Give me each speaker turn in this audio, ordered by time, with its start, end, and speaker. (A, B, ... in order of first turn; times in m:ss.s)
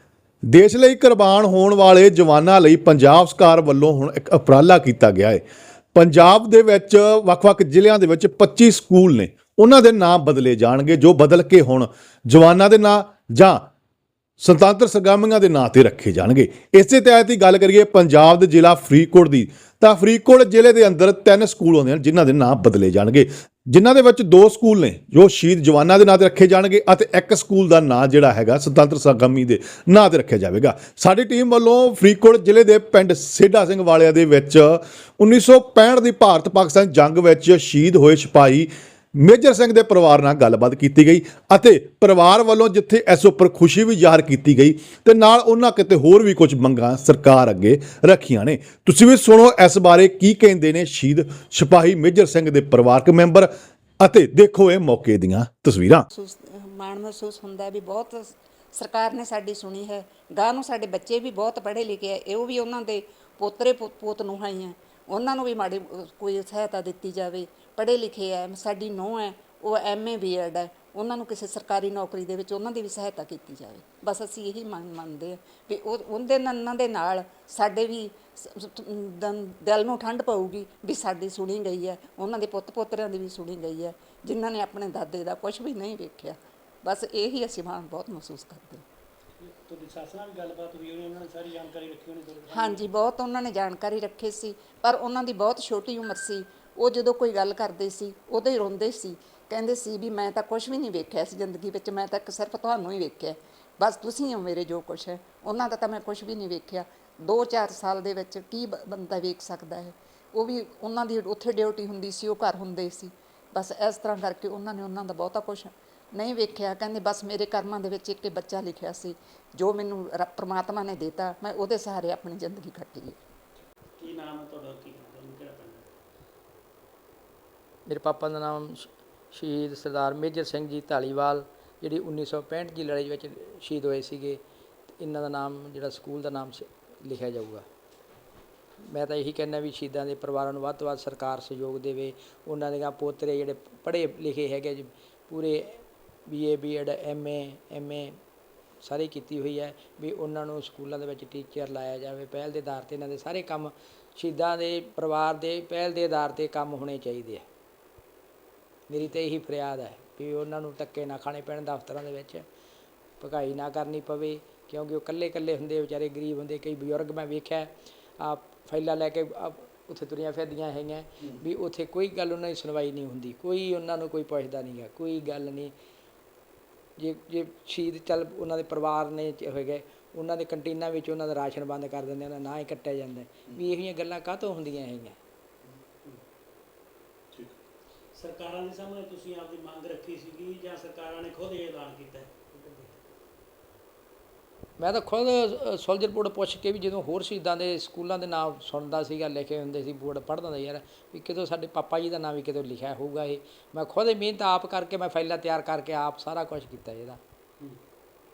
0:00.5-0:05.4 A
0:05.9-0:13.7 A
0:14.4-0:56.1 A
0:56.1-1:28.8 B
1:29.4-1:32.8 C
1:32.5-2:03.2 B
2:04.0-2:05.9 C
2:07.9-2:14.4 D
2:15.0-2:17.7 D
2:18.8-2:28.2 D
2:28.8-2:37.4 D
2:38.9-2:42.5 D
2:43.2-2:55.7 D
2:57.0-3:05.2 D
3:05.7-3:06.2 C
3:08.2-3:13.0 C
3:14.8-3:27.2 D